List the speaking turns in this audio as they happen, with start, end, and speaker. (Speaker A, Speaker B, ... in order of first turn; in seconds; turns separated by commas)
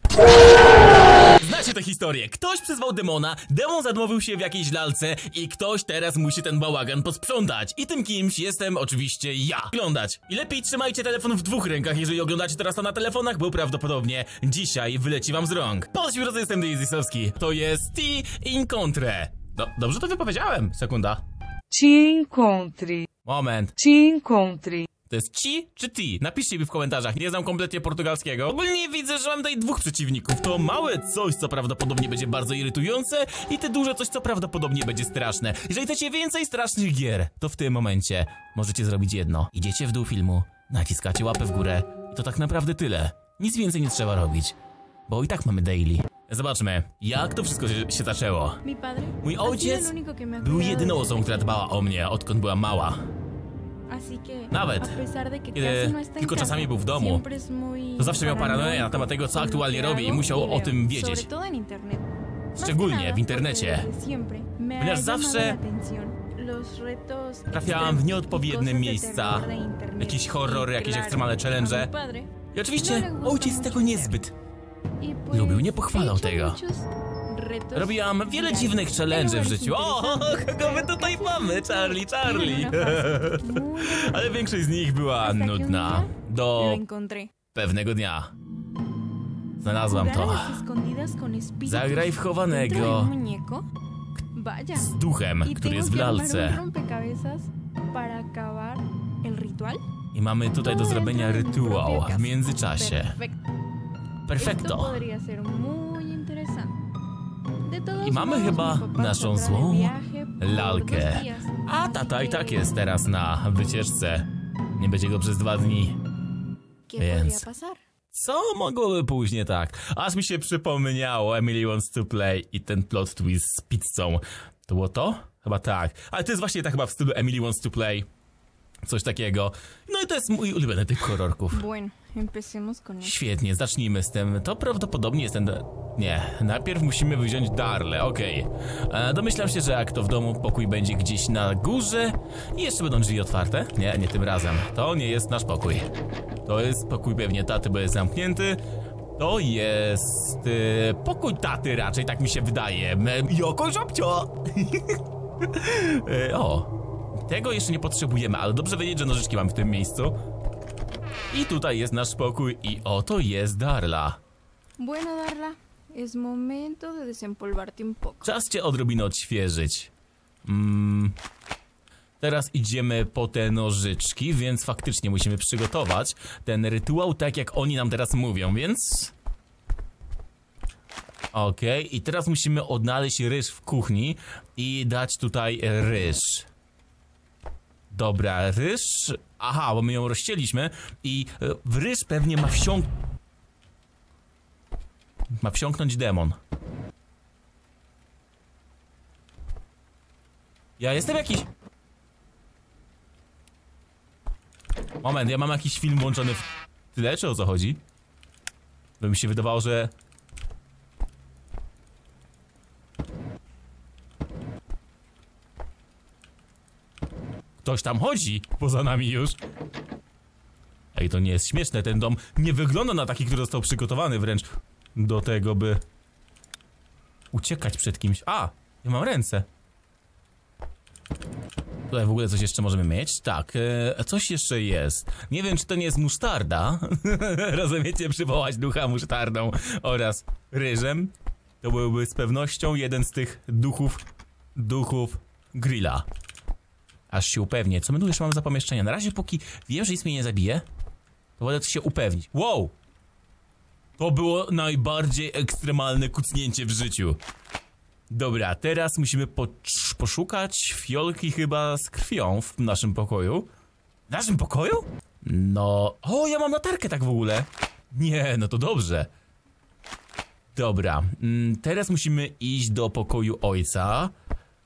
Speaker A: 1.4-21.2, Speaker B: 21.7-23.1, Speaker A: 23.2-23.8, Speaker B: 23.8-24.9, Speaker A: 25.1-44.5, Speaker A: 45.1-48.6, Speaker C: 48.6-51.6, Speaker A: 49.2-53.1, Speaker C: 53.9-74.2, Speaker A: 54.5-55.0, Speaker A: 55.5-57.2, Speaker A: 58.0-61.3, Speaker A: 62.5-63.9, Speaker A: 64.8-65.6, Speaker A: 67.5-71.9, Speaker A: 72.5-74.3, Speaker C: 75.0-84.3, Speaker A: 75.3-76.6, Speaker A: 77.7-86.8, Speaker C: 85.2-87.3, Speaker A: 87.5-88.3, Speaker A: 89.6-90.6, Speaker C: 89.9-93.7, Speaker A: 91.7-93.1, Speaker C: 94.3-99.8, Speaker A: 94.8-96.6, Speaker A: 100.1-103.2, Speaker C: 100.6-103.4, Speaker A: 104.3-105.0, Speaker C: 104.4-106.8, Speaker C: 107.7-112.8, Speaker A: 108.0-116.0, Speaker C: 116.9-117.8, Speaker A: 117.0-117.5, Speaker A: 118.1-128.1, Speaker A: 128.8-131.7, Speaker C: 131.5-133.2, Speaker A: 133.0-145.9, Speaker A: 146.5-148.6, Speaker A: 149.2-156.7, Speaker A: 157.3-160.2, Speaker A: 161.3-164.2, Speaker C: 164.8-168.3, Speaker A: 168.2-169.9, Speaker A: 170.4-171.2, Speaker A: 172.2-179.1, Speaker A: 181.3-186.5, Speaker A: 187.9-192.9, Speaker A: 195.4-196.4, Speaker A: 200.8-201.5, Speaker A: 205.0-207.8, Speaker A: 209.0-209.9, Speaker A: 217.6-219.4, Speaker A: 220.9-225.8, Speaker A: 227.3-229.5, Speaker A: 231.9-244.0, Speaker A: 244.6-246.1, Speaker A: 247.1-250.7, Speaker A: 251.4-252.8, Speaker A: 254.0-257.2, Speaker A: 258.1-263.5, Speaker A: 264.1-269.1, Speaker A: 270.6-274.1